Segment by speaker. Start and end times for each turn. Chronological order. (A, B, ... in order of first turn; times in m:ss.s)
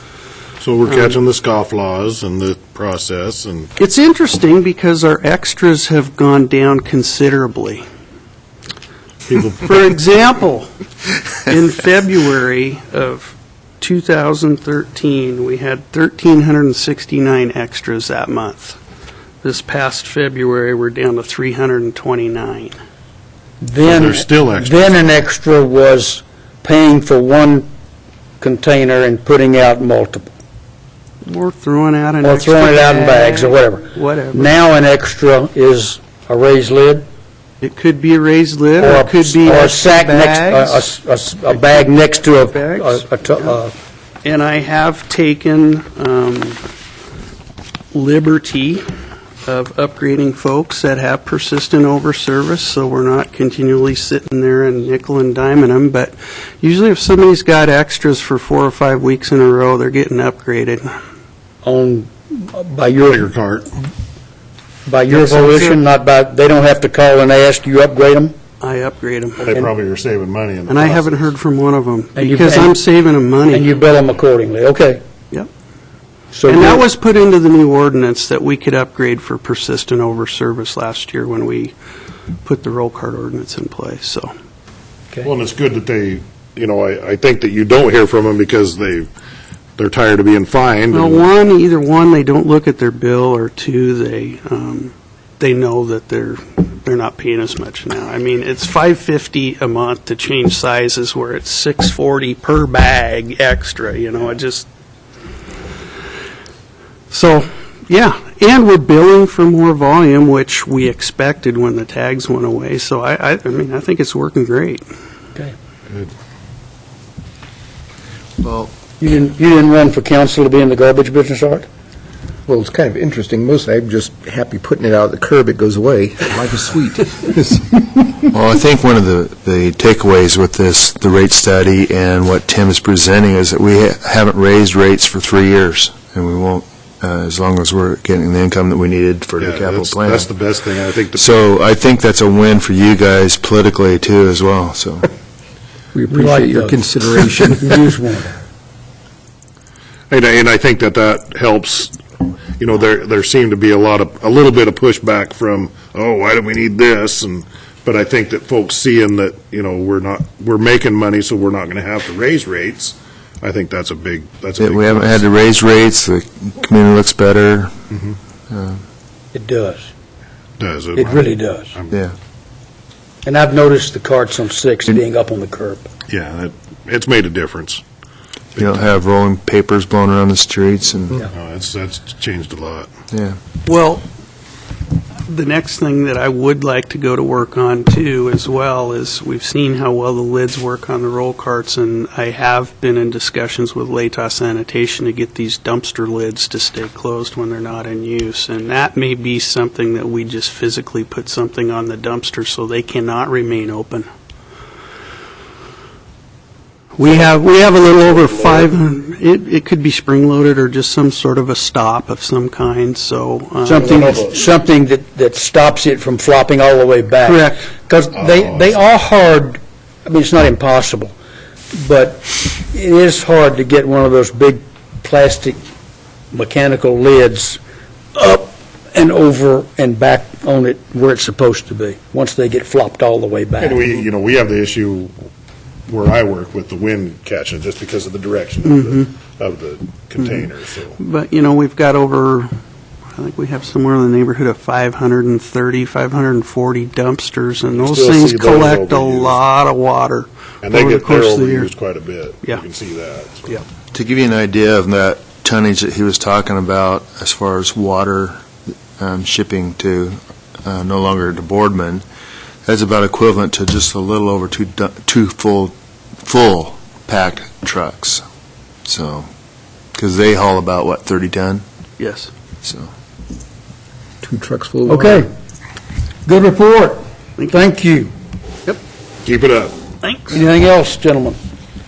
0:00.6-0:03.7 A
0:00.9-0:01.2 B
0:03.8-0:07.8 B
0:09.3-0:09.6 A
0:09.6-0:10.7 B
0:11.5-0:18.8 B
0:19.4-0:22.7 B
0:23.6-0:27.7 C
0:23.8-0:24.9 A
0:28.4-0:30.3 C
0:31.2-0:34.6 B
0:32.2-0:37.0 C
0:37.6-0:40.8 B
0:38.8-0:43.7 C
0:42.5-0:43.6 B
0:44.2-0:46.6 B
0:47.9-0:48.8 B
0:49.4-1:01.0 B
1:01.6-1:03.3 C
1:03.0-1:03.7 A
1:04.9-1:08.3 C
1:05.1-1:05.8 B
1:08.6-1:09.5 B
1:09.4-1:11.3 A
1:10.7-1:13.7 B
1:12.2-1:12.8 C
1:13.5-1:15.0 C
1:16.3-1:16.9 C
1:16.5-1:21.8 B
1:22.4-1:24.3 B
1:25.2-1:29.1 A
1:29.8-1:31.2 A
1:30.9-1:44.7 B
1:47.1-1:54.8 B
1:59.0-2:01.7 C
2:02.5-2:07.8 D
2:08.3-2:20.3 E
2:19.4-2:21.4 A
2:21.1-2:25.1 E
2:25.9-2:27.8 D
2:26.1-2:26.8 C
2:27.4-2:28.4 C
2:30.1-2:32.0 A
2:32.6-2:45.3 A
2:44.6-2:47.7 E
2:48.5-2:48.8 E
2:49.3-2:49.9 C
2:50.6-2:52.0 A
2:51.0-2:51.7 C
2:53.2-2:55.9 C
2:56.1-2:57.8 A
2:58.6-2:58.9 A
2:58.6-3:01.3 E
3:01.3-3:02.9 A
3:03.1-3:03.4 E
3:03.7-3:04.0 B
3:05.3-3:24.1 B
3:27.0-3:34.2 B
3:27.0-3:28.7 A
3:33.6-3:41.1 C
3:34.0-3:34.3 A
3:37.2-3:37.7 B
3:38.2-3:38.6 A
3:41.7-3:45.6 C
3:46.3-3:47.6 C
3:48.2-3:53.8 C
3:53.6-3:55.1 A
3:55.9-4:01.0 A
3:58.7-3:59.1 B
4:01.0-4:02.5 B
4:03.2-4:11.7 B
4:07.8-4:09.4 A
4:10.6-4:13.6 A
4:13.9-4:18.4 E
4:19.0-4:22.0 E
4:22.6-4:28.2 E
4:28.9-4:29.3 E
4:29.9-4:31.6 E
4:32.0-4:32.3 B
4:32.6-4:32.9 E
4:34.2-4:35.3 D
4:34.9-4:35.3 C
4:36.3-4:38.1 C
4:39.2-4:39.8 A
4:40.0-4:40.4 B
4:40.3-4:41.4 C